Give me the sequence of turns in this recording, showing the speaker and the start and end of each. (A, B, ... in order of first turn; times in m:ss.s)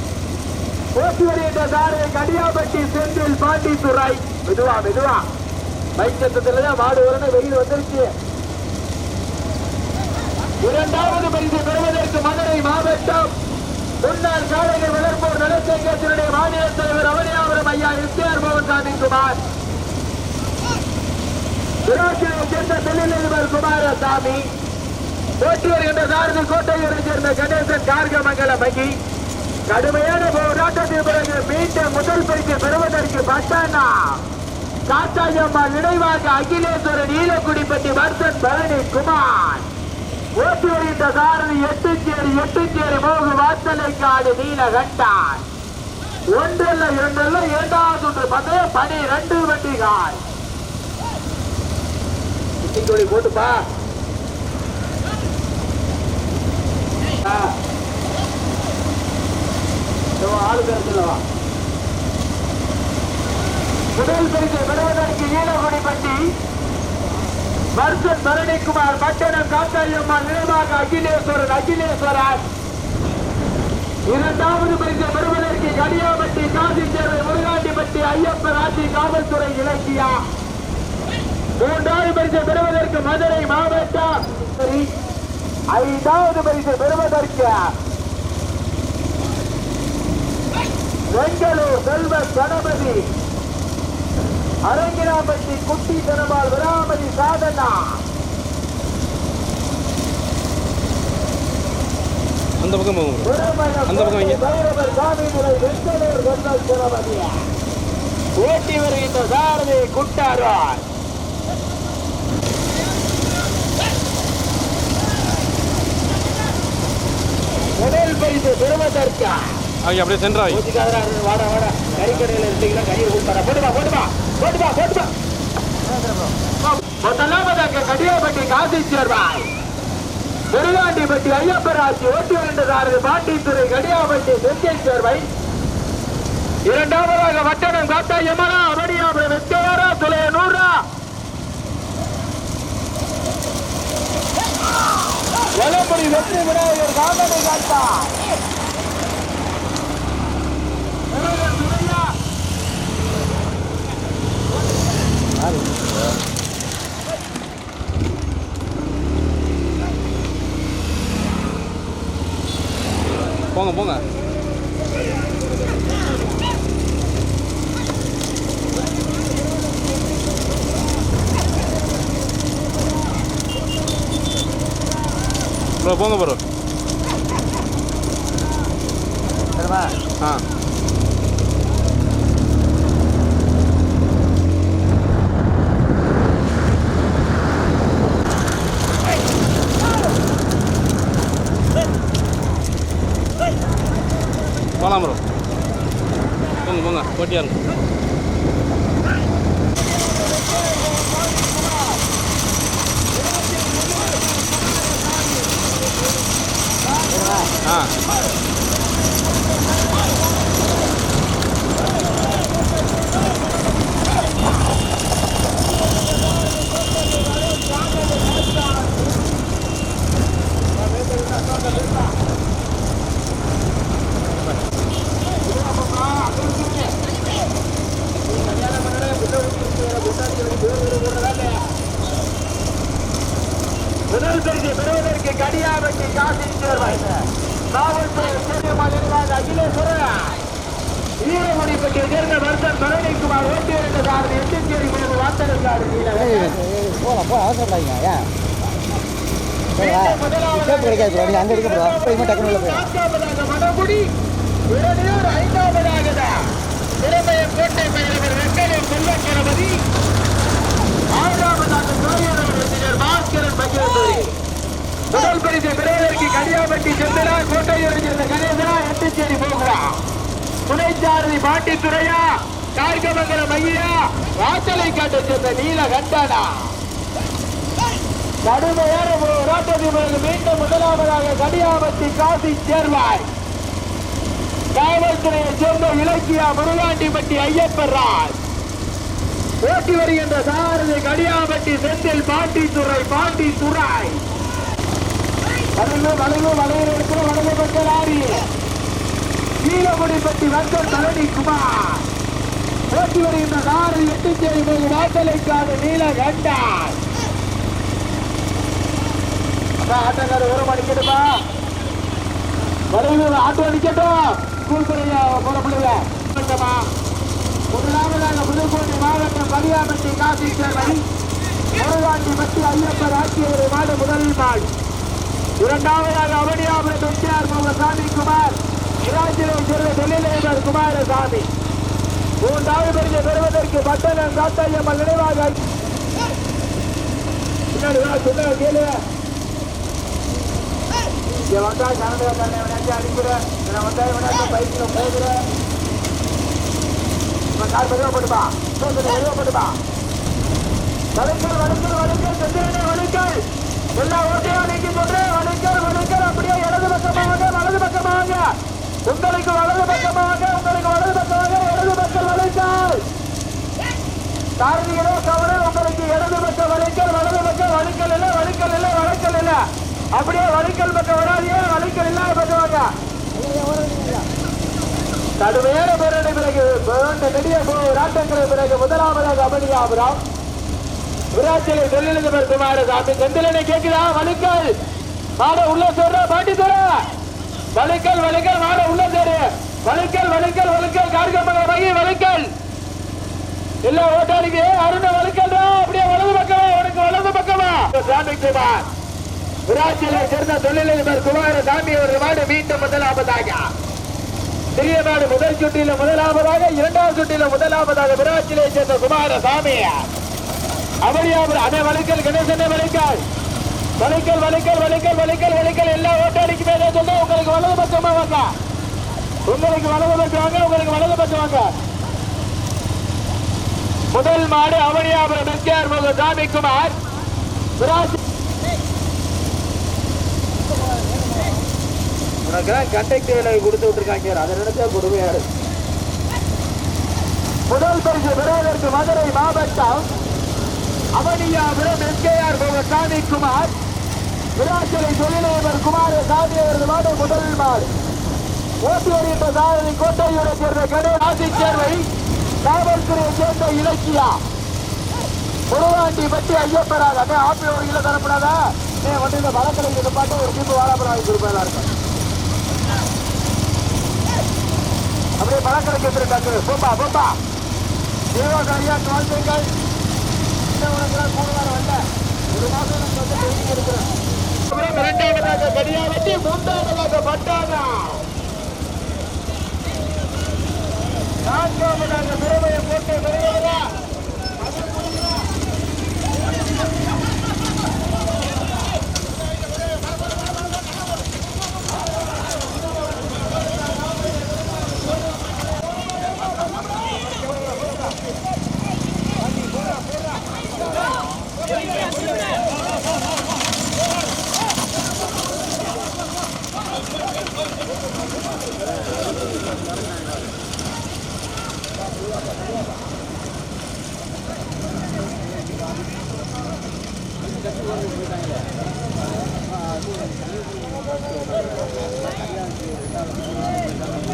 0:00.9-0:05.2 A
0:06.0-0:08.1 A
0:10.6-0:13.3 A
0:14.0-0:19.4 A
0:21.8-0:24.5 A
0:25.4-0:29.0 A
0:29.7-0:34.2 A
0:34.9-0:39.7 A
0:40.4-0:45.4 A
0:46.3-0:50.2 A
0:52.6-0:53.7 A
0:57.2-0:57.6 A
1:00.2-1:01.2 A
1:03.9-1:06.4 A
1:07.7-1:12.4 A
1:14.0-1:20.2 A
1:21.6-1:24.9 A
1:25.7-1:27.7 A
1:31.1-1:33.1 A
1:34.6-1:38.0 A
1:42.6-1:43.3 B
1:43.2-1:47.4 A
1:43.9-1:44.4 B
1:48.4-1:50.8 A
1:57.7-1:59.6 A
1:59.8-2:00.6 B
2:00.4-2:05.1 A
2:05.9-2:06.3 C
2:06.6-2:09.5 A
2:10.5-2:15.3 A
2:16.6-2:20.8 A
2:25.5-2:28.2 A
2:31.1-2:32.2 A
2:43.5-2:44.0 B
2:55.8-2:56.4 B
2:59.6-2:59.9 C
3:14.8-3:15.2 B
3:16.6-3:17.6 B
3:20.8-3:21.4 A
3:27.1-3:27.5 C
3:27.6-3:28.0 B
3:36.6-3:39.2 A
3:40.7-3:42.2 A
3:45.4-3:47.0 A
3:48.2-3:51.7 A
3:54.1-3:57.1 A
3:57.7-4:00.4 A
4:01.2-4:06.6 A
4:06.3-4:08.3 C
4:09.8-4:14.1 A
4:10.7-4:12.6 C
4:14.7-4:19.8 A
4:21.1-4:24.4 A
4:25.1-4:30.0 A
4:30.6-4:36.7 A
4:38.4-4:43.3 A
4:44.7-4:48.4 A
4:49.6-4:54.2 A
4:55.7-4:58.5 A
4:59.6-5:02.1 A
5:02.9-5:07.0 A
5:09.8-5:11.4 A
5:12.9-5:16.9 A
5:17.7-5:21.0 A
5:21.7-5:24.7 A
5:25.6-5:31.5 A
5:32.4-5:35.6 A
5:37.7-5:39.0 A
5:41.5-5:45.4 A
5:47.5-5:49.8 A
5:51.1-6:03.1 A
6:04.6-6:12.9 A
6:13.4-6:14.2 C
6:15.4-6:20.2 A
6:21.3-6:24.7 A
6:25.4-6:27.1 A
6:27.7-6:32.5 A
6:33.8-6:38.9 A
6:39.7-6:43.7 A
6:44.7-6:50.1 A
6:51.0-6:53.2 A
6:54.0-6:58.6 A
6:59.5-7:01.7 A
7:04.1-7:07.0 A
7:07.8-7:08.2 A
7:12.4-7:15.5 A
7:17.7-7:20.1 A
7:21.2-7:23.8 A
7:24.5-7:27.9 A
7:28.8-7:32.1 A
7:32.6-7:34.4 A
7:35.7-7:41.9 A
7:45.4-7:47.4 A
7:48.3-7:49.7 A
7:50.6-7:54.1 A
7:54.6-7:58.3 A
8:01.4-8:04.0 A
8:04.6-8:05.3 A